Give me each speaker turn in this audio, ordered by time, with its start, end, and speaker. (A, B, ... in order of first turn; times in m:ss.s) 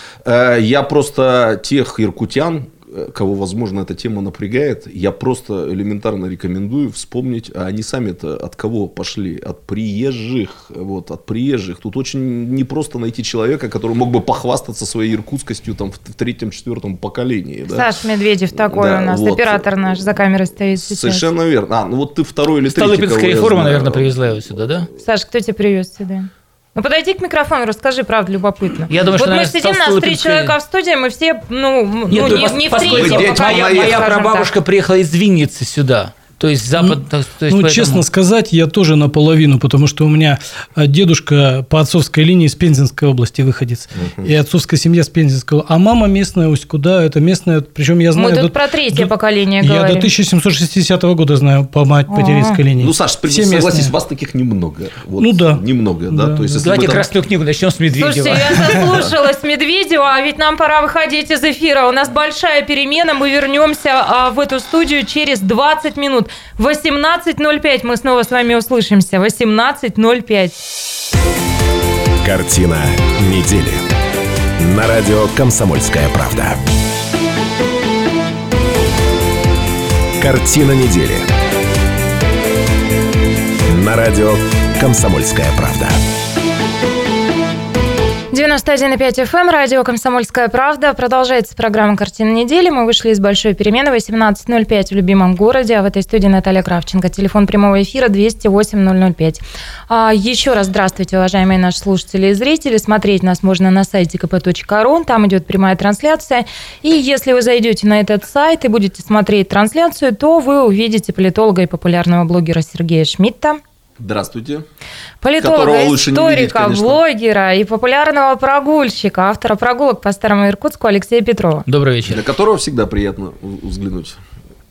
0:00.2-0:17.9 A
0:17.7-0:21.3 B
0:18.6-0:20.2 A
0:20.8-0:24.7 A
0:22.7-0:24.9 C
0:25.0-0:34.5 B
0:28.9-0:30.6 C
0:32.1-0:38.0 C
0:32.2-0:34.1 A
0:36.8-0:53.9 D
0:48.2-0:50.1 B
0:52.1-0:52.6 B
0:52.8-0:57.1 A
0:55.2-0:56.6 D
0:56.6-0:59.0 C
0:58.0-1:10.6 B
1:12.2-1:13.9 E
1:14.6-1:16.6 E
1:20.2-1:21.3 E
1:23.7-1:26.0 E
1:28.3-1:53.6 B
1:54.0-1:54.6 A
1:55.2-2:01.6 B
1:55.4-1:57.0 A
2:01.7-2:02.2 C
2:02.1-2:04.2 A